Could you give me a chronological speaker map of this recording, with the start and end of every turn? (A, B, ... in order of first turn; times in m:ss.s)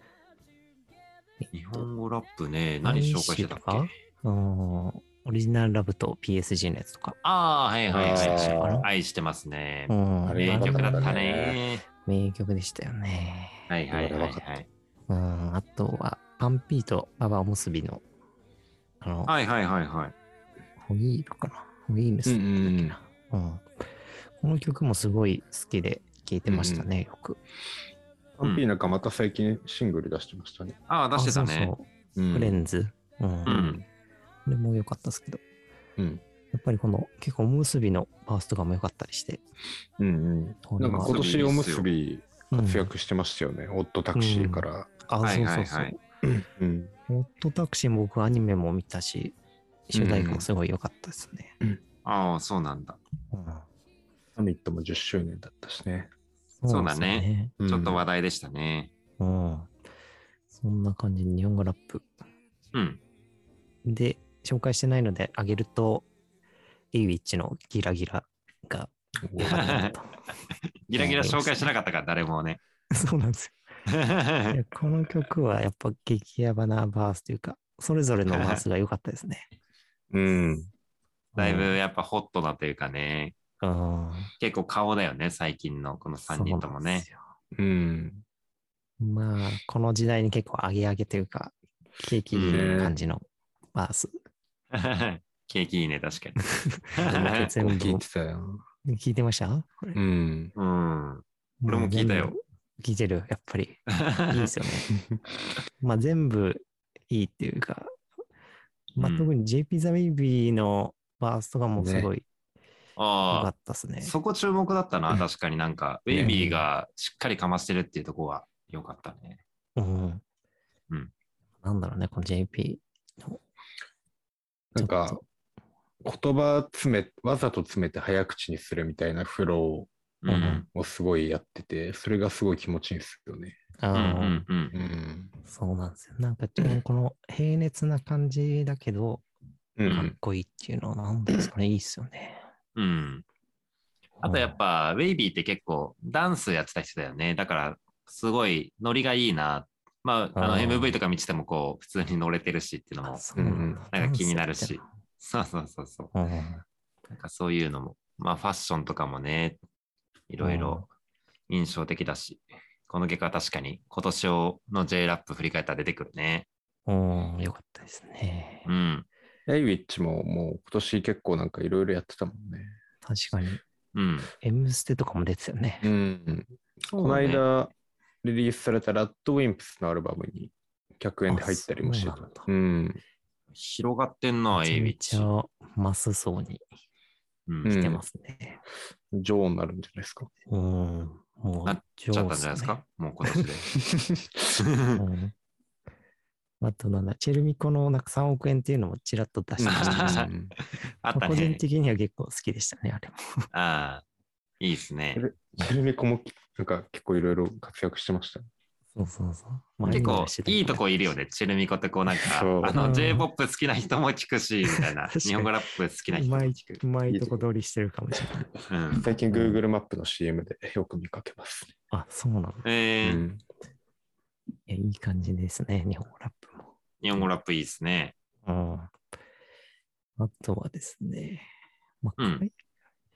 0:01.4-0:01.9 A
0:01.5-0:03.9 B
0:02.8-0:07.2 A
0:07.2-0:11.8 B
0:07.9-0:08.9 C
0:08.1-0:08.9 A
0:09.9-0:11.2 A
0:10.2-0:11.6 C
0:12.0-0:13.7 A
0:13.7-0:14.7 B
0:13.9-0:14.4 C
0:15.1-0:18.0 A
0:19.0-0:19.3 A
0:19.3-0:20.1 B
0:20.8-0:23.7 A
0:22.3-0:23.0 C
0:24.4-0:27.4 A
0:26.5-0:26.9 C
0:28.4-0:30.8 C
0:30.9-0:31.7 B
0:31.2-0:33.8 A
0:32.2-0:32.6 C
0:33.5-0:33.8 B
0:33.5-0:33.8 C
0:34.5-0:35.4 A
0:36.0-0:36.2 C
0:36.5-0:39.4 A
0:40.0-0:44.9 C
0:40.6-0:41.2 A
0:41.0-0:41.9 B
0:42.5-0:42.9 A
0:44.2-0:46.0 A
0:45.2-0:45.9 B
0:46.2-0:46.9 C
0:47.1-0:49.4 A
0:49.9-0:51.6 A
0:49.9-0:50.5 C
0:52.0-0:53.0 B
0:53.3-0:53.7 A
0:54.4-0:56.1 C
0:56.6-0:57.5 A
0:56.7-0:58.9 B
0:57.6-0:58.0 C
0:59.2-0:59.7 A
1:00.5-1:02.1 A
1:02.7-1:03.0 B
1:03.8-1:06.1 A
1:06.9-1:10.2 A
1:09.3-1:09.8 C
1:09.4-1:09.9 B
1:10.9-1:12.6 B
1:11.0-1:11.7 A
1:12.9-1:13.6 A
1:13.9-1:14.6 B
1:14.5-1:19.5 A
1:18.3-1:18.6 B
1:20.1-1:20.7 C
1:21.4-1:21.8 A
1:21.4-1:23.4 B
1:23.6-1:24.3 A
1:24.4-1:27.1 B
1:26.3-1:27.2 A
1:27.5-1:28.2 C
1:29.0-1:34.2 A
1:32.3-1:32.8 B
1:32.5-1:32.9 C
1:34.7-1:36.4 B
1:36.4-1:38.0 A
1:37.0-1:37.5 B
1:37.0-1:38.6 C
1:38.8-1:40.0 A
1:40.0-1:40.5 C
1:40.6-1:42.4 B
1:41.6-1:44.9 A
1:44.0-1:44.5 B
1:44.9-1:45.2 C
1:45.8-1:47.9 A
1:49.0-1:52.3 A
1:49.0-1:49.3 B
1:51.8-1:52.1 C
1:53.0-1:53.5 B
1:53.3-1:54.1 A
1:54.0-1:59.4 B
1:56.1-1:56.4 C
1:56.2-1:56.6 A
1:59.8-2:00.2 A
2:01.6-2:03.4 A
2:04.7-2:05.2 C
2:04.8-2:05.2 A
2:06.0-2:09.9 C
2:10.2-2:10.7 B
2:10.3-2:10.6 A
2:10.7-2:13.6 C
2:13.8-2:14.5 A
2:13.9-2:14.7 B
2:14.7-2:15.3 C
2:15.4-2:19.2 A
2:19.8-2:20.2 C
2:19.9-2:22.4 A
2:22.8-2:23.2 B
2:24.2-2:24.6 A
2:24.2-2:33.2 B
2:30.4-2:31.0 A
2:33.0-2:34.8 A
2:33.4-2:33.8 C
2:33.9-2:36.1 B
2:36.2-2:36.6 A
2:37.1-2:39.6 B
2:40.3-2:40.9 B
2:40.4-2:40.9 A
2:41.5-2:46.5 B
2:46.9-2:48.7 A
2:48.7-2:49.1 B
2:49.5-2:52.8 C
2:53.0-2:53.6 A
2:53.9-2:54.3 B
2:54.4-2:55.9 A
2:55.8-2:57.7 C
2:56.9-2:57.4 B
2:58.2-3:03.0 C
3:01.3-3:02.5 A
3:03.6-3:05.3 B
3:04.5-3:06.6 A
3:07.5-3:07.7 B
3:07.6-3:08.0 C
3:07.7-3:08.6 A
3:09.1-3:10.3 C
3:10.5-3:13.4 A
3:11.7-3:13.7 B
3:14.0-3:14.2 C
3:14.6-3:15.0 B
3:15.0-3:15.3 A
3:16.6-3:20.3 A
3:19.6-3:20.5 C
3:19.7-3:20.3 B
3:21.0-3:21.6 B
3:21.1-3:23.5 A
3:23.5-3:24.0 B
3:24.6-3:25.2 B
3:25.2-3:28.5 C
3:29.0-3:30.8 A
3:29.9-3:36.6 B
3:32.3-3:32.8 C
3:32.7-3:33.3 A
3:34.7-3:35.5 A
3:36.1-3:38.5 A
3:37.1-3:37.4 C
3:38.7-3:39.1 B
3:38.9-3:41.7 C
3:39.3-3:39.6 A
3:41.9-3:42.6 A
3:42.6-3:43.2 B
3:43.0-3:43.4 C
3:44.7-3:46.7 A
3:47.0-3:48.1 B
3:48.4-3:48.9 A
3:50.2-3:51.5 A
3:52.0-3:52.5 A
3:52.2-3:52.4 B